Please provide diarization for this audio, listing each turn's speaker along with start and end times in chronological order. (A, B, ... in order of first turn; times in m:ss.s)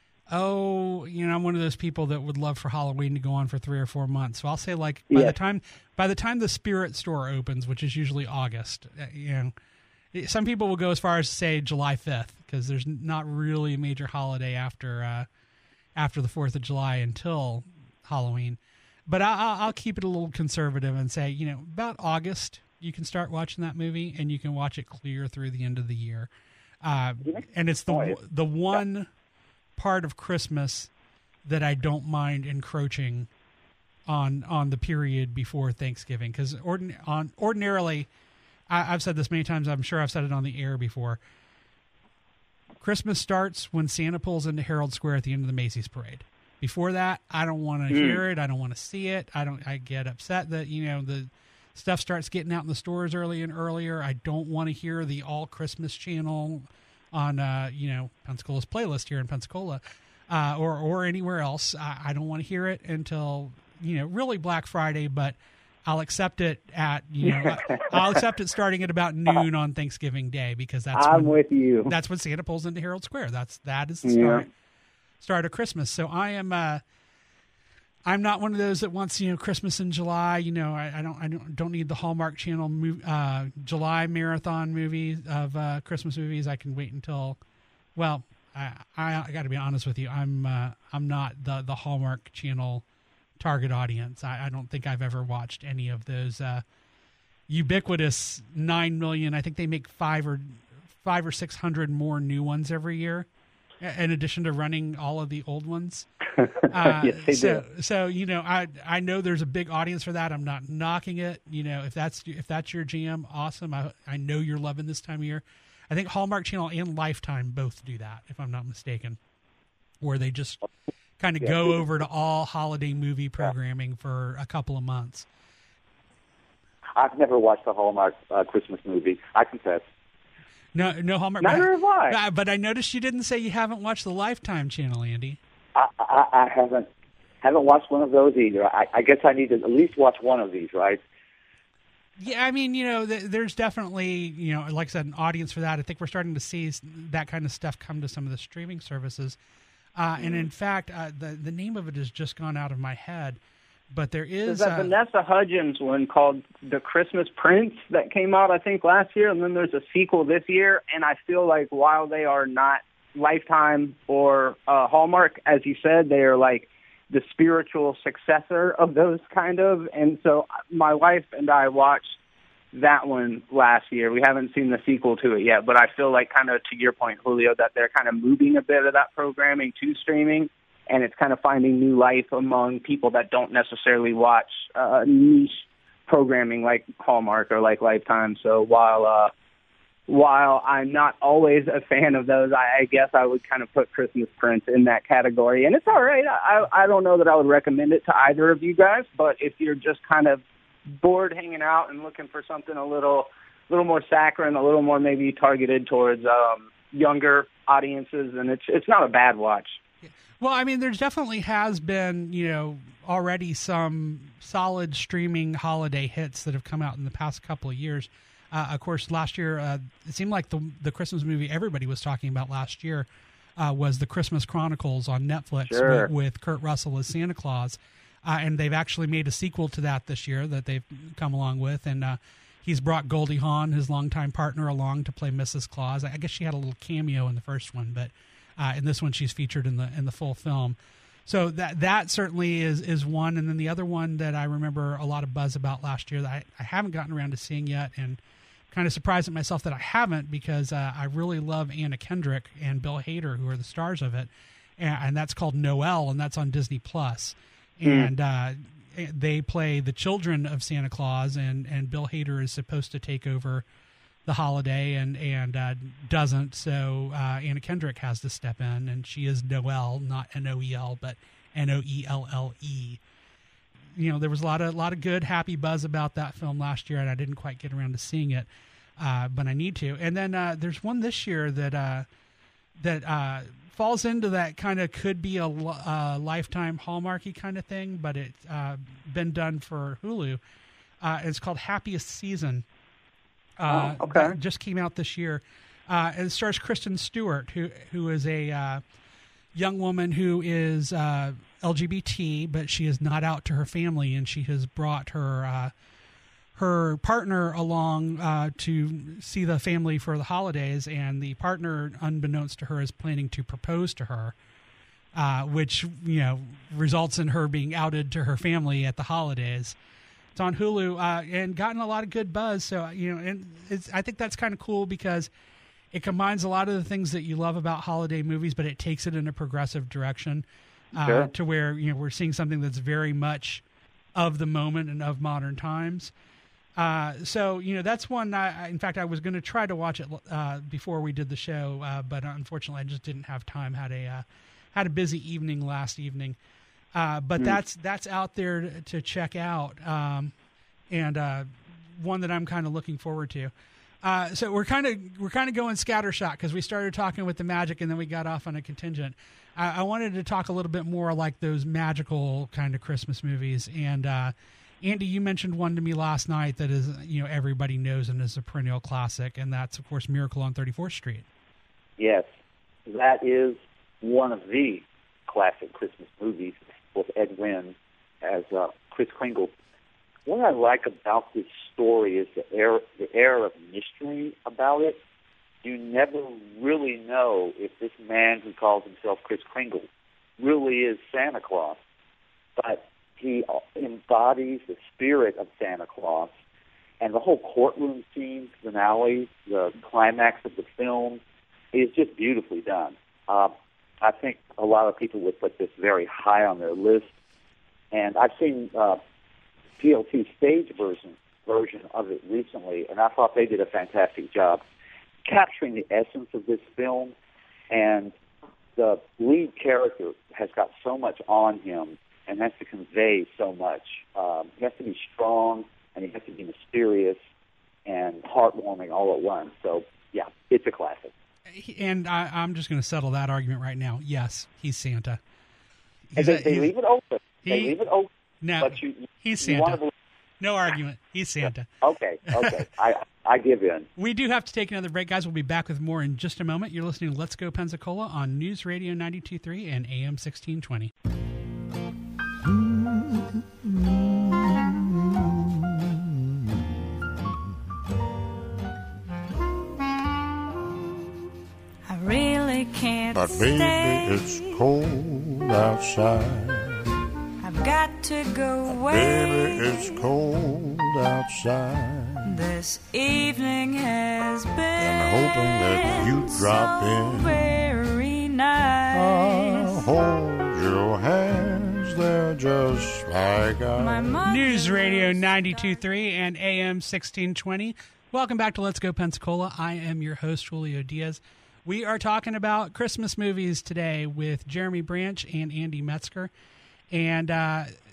0:00.3-0:09.5 A
0:05.1-0:05.4 B
0:10.1-0:15.3 A
0:16.0-0:26.3 A
0:26.8-0:29.1 A
0:27.2-0:28.2 C
0:29.8-0:30.9 A
0:31.4-0:33.3 A
0:34.1-0:38.1 A
0:38.7-0:41.2 A
0:42.8-1:11.4 A
0:47.9-0:48.2 B
1:07.3-1:07.9 B
1:10.9-1:11.9 B
1:11.9-1:14.5 A
1:14.0-1:14.4 B
1:15.2-1:16.8 A
1:18.0-1:27.4 A
1:28.0-1:32.8 A
1:33.4-1:36.6 A
1:37.5-1:43.3 A
1:43.8-1:46.1 A
1:46.6-1:47.6 B
1:46.7-1:59.2 A
2:00.0-2:00.6 A
2:01.2-2:05.3 A
2:06.9-2:09.9 C
2:10.7-2:15.4 A
2:11.4-2:12.2 B
2:15.7-2:16.9 C
2:17.4-2:21.0 C
2:22.2-2:29.4 A
2:30.0-2:33.4 A
2:33.9-2:34.9 A
2:34.5-2:52.2 B
2:52.7-3:09.3 B
3:10.1-3:29.8 B
3:30.4-3:43.1 A
3:43.6-4:08.2 A
3:45.7-3:46.1 B
4:08.7-4:23.6 A
4:17.8-4:18.1 B
4:24.2-4:33.0 A
4:34.0-4:42.1 A
4:42.8-4:50.4 A
4:51.0-4:52.6 A
4:53.6-4:58.8 A
4:53.7-4:54.3 B
4:59.6-5:05.7 A
5:06.6-5:14.4 A
5:15.1-5:19.8 A
5:20.4-5:25.3 A
5:25.9-5:33.6 A
5:34.1-5:36.1 A
5:36.8-5:46.4 A
5:46.9-5:50.3 A
5:50.9-5:53.5 A
5:54.0-6:11.3 A
6:12.0-6:12.2 C
6:12.9-6:19.5 C
6:20.2-6:25.0 C
6:25.6-6:29.9 C
6:30.4-6:31.8 C
6:32.6-6:36.3 C
6:37.0-6:41.2 C
6:41.7-6:47.1 C
6:47.9-6:49.0 C
6:49.8-6:54.6 C
6:55.2-6:57.1 C
6:57.7-6:58.1 C
6:58.8-7:07.2 C
7:07.9-7:11.1 C
7:11.5-7:15.2 A
7:16.1-7:16.7 A
7:16.2-7:18.1 C
7:17.4-7:17.8 A
7:18.4-7:19.8 A
7:18.6-7:19.9 C
7:20.4-7:21.7 A
7:21.8-7:23.9 C
7:22.3-7:22.6 A
7:24.0-7:30.9 A
7:41.9-7:44.6 D
7:43.1-7:46.8 E
7:47.4-7:50.0 D
7:48.7-7:52.4 E
7:52.3-7:59.8 D
7:54.8-7:57.4 E
7:58.9-8:04.2 E
8:03.8-8:06.0 D
8:04.2-8:16.3 A
8:16.9-8:17.7 A